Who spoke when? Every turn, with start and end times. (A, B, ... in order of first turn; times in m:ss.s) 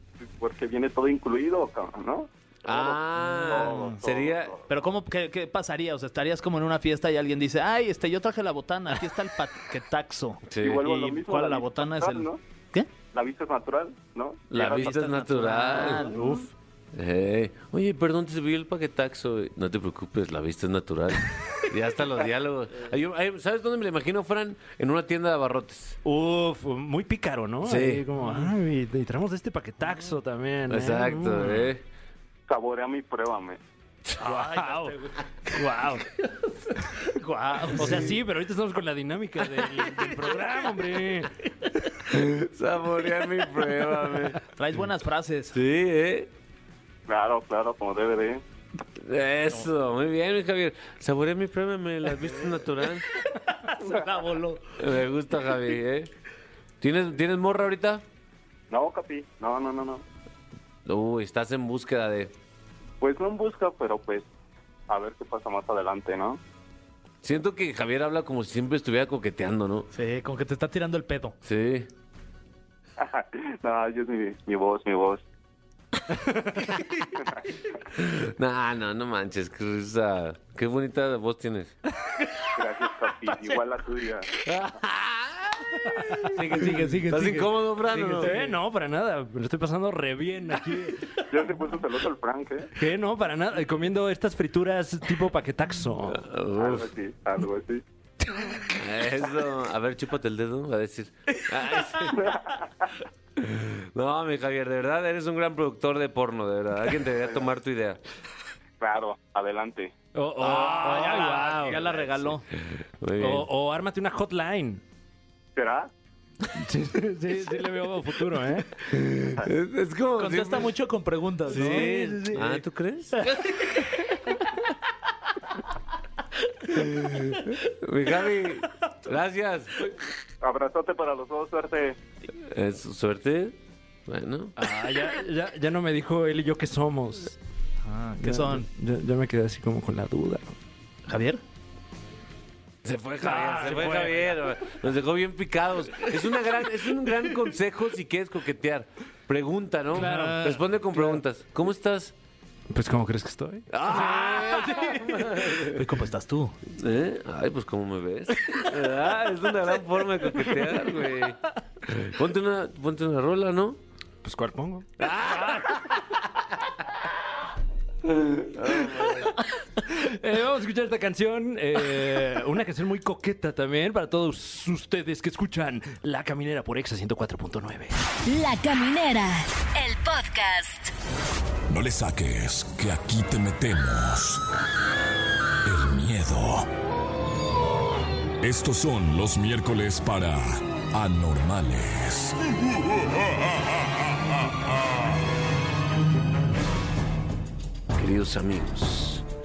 0:00.2-0:04.6 A
0:02.6-0:04.5 B
0:03.3-0:04.0 C
0:04.7-0:12.9 C
0:10.5-0:10.8 B
0:10.6-0:12.4 A
0:13.1-0:15.0 A
0:14.5-0:16.1 B
0:14.7-0:16.4 C
0:16.1-0:16.5 D
0:16.9-0:26.0 B
0:26.0-0:31.7 D
0:27.6-0:28.0 B
0:28.2-0:28.5 C
0:30.7-0:31.8 B
0:32.5-0:33.6 A
0:34.2-0:35.0 C
0:34.2-0:36.0 D
0:37.0-0:38.1 C
0:37.7-0:41.3 D
0:42.1-0:44.4 B
0:44.5-0:45.5 C
0:45.5-0:46.3 B
0:47.1-0:48.4 A
0:49.0-0:53.0 B
0:53.5-0:54.8 C
0:54.8-0:56.1 B
0:56.8-0:58.0 B
0:58.7-1:00.0 A
1:00.8-1:02.3 B
1:03.0-1:04.3 A
1:04.9-1:06.4 A
1:07.2-1:09.9 B
1:09.9-1:11.4 C
1:11.4-1:11.9 B
1:13.0-1:15.2 A
1:18.0-1:21.8 B
1:22.5-1:24.3 A
1:24.4-1:28.4 B
1:26.3-1:27.5 C
1:27.9-1:31.1 D
1:28.2-1:28.5 C
1:31.3-1:32.7 A
1:32.8-1:36.2 D
1:36.1-1:36.9 B
1:36.6-1:37.8 A
1:38.7-1:42.3 B
1:42.2-1:42.6 A
1:43.4-1:48.0 B
1:48.8-1:49.9 A
1:50.1-1:51.8 D
1:50.4-1:52.1 B
1:50.4-1:52.4 C
1:53.0-1:53.5 B
1:53.2-1:54.8 D
1:55.6-1:55.9 A
1:56.5-1:58.8 D
1:58.9-2:00.7 B
2:00.2-2:02.4 C
2:01.5-2:03.3 B
2:01.5-2:02.6 D
2:07.1-2:09.9 B
2:10.4-2:12.0 A
2:12.5-2:13.5 B
2:14.1-2:14.5 B
2:14.6-2:17.4 D
2:17.9-2:18.6 C
2:18.2-2:20.5 D
2:21.1-2:21.4 C
2:22.8-2:32.1 B
2:23.2-2:24.4 D
2:29.9-2:31.2 D
2:30.0-2:30.6 C
2:32.7-2:33.7 D
2:33.7-2:35.8 B
2:33.9-2:36.5 C
2:36.8-2:43.8 B
2:44.2-2:44.9 D
2:45.0-2:46.0 B
2:45.5-2:45.9 D
2:48.5-2:49.3 B
2:48.7-2:49.2 D
2:49.8-2:57.9 D
2:58.2-3:00.9 E
3:01.7-3:04.4 F
3:05.6-3:06.7 F
3:08.4-3:12.4 F
3:17.9-3:19.2 B